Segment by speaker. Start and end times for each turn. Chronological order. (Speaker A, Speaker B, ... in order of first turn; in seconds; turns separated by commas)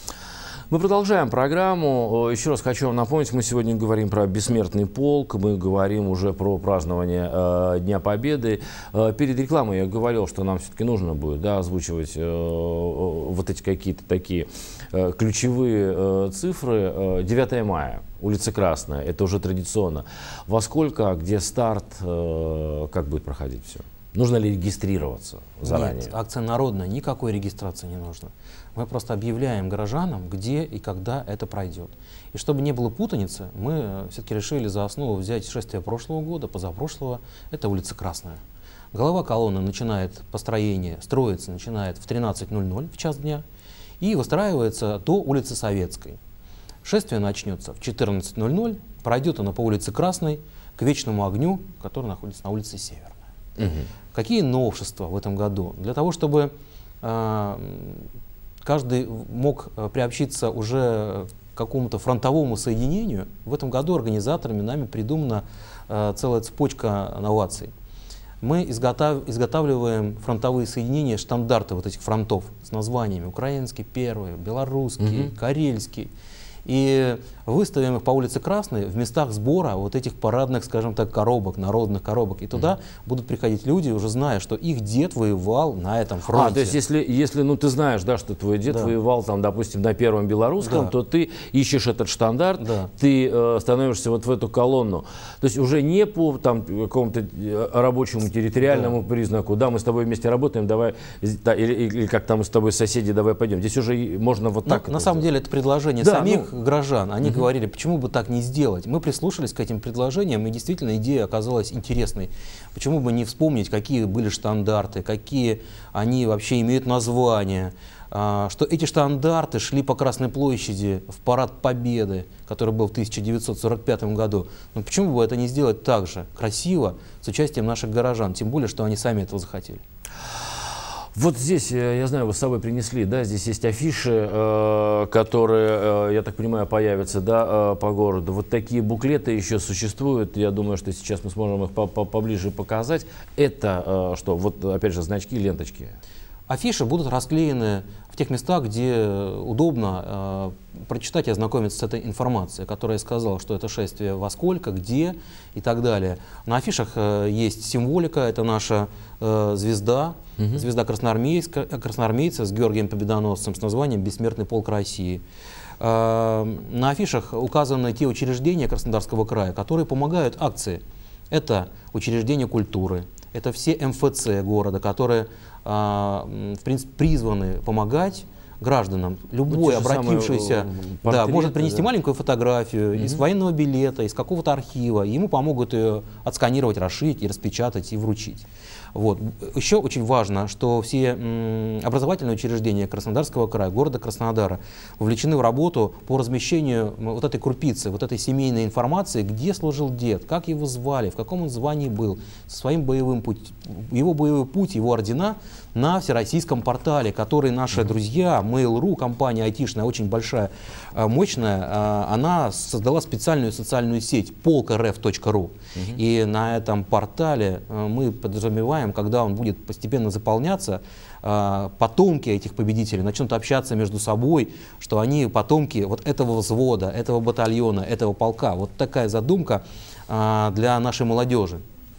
Speaker A: 0.7-26.1, Speaker B: 25.6-38.4, Speaker B: 38.9-43.4, Speaker B: 44.0-46.2, Speaker B: 46.8-53.2, Speaker A: 53.6-53.9, Speaker B: 54.1-58.1, Speaker B: 58.6-67.7, Speaker B: 68.4-76.1, Speaker A: 75.0-75.3, Speaker B: 76.7-86.8, Speaker A: 86.3-105.3, Speaker B: 90.6-90.9, Speaker B: 92.6-92.9, Speaker B: 98.7-98.9, Speaker B: 104.7-129.8, Speaker A: 106.0-106.5, Speaker A: 131.2-146.0, Speaker B: 146.5-165.2, Speaker A: 160.4-160.6, Speaker B: 165.8-231.6, Speaker A: 179.5-181.9, Speaker A: 183.0-183.2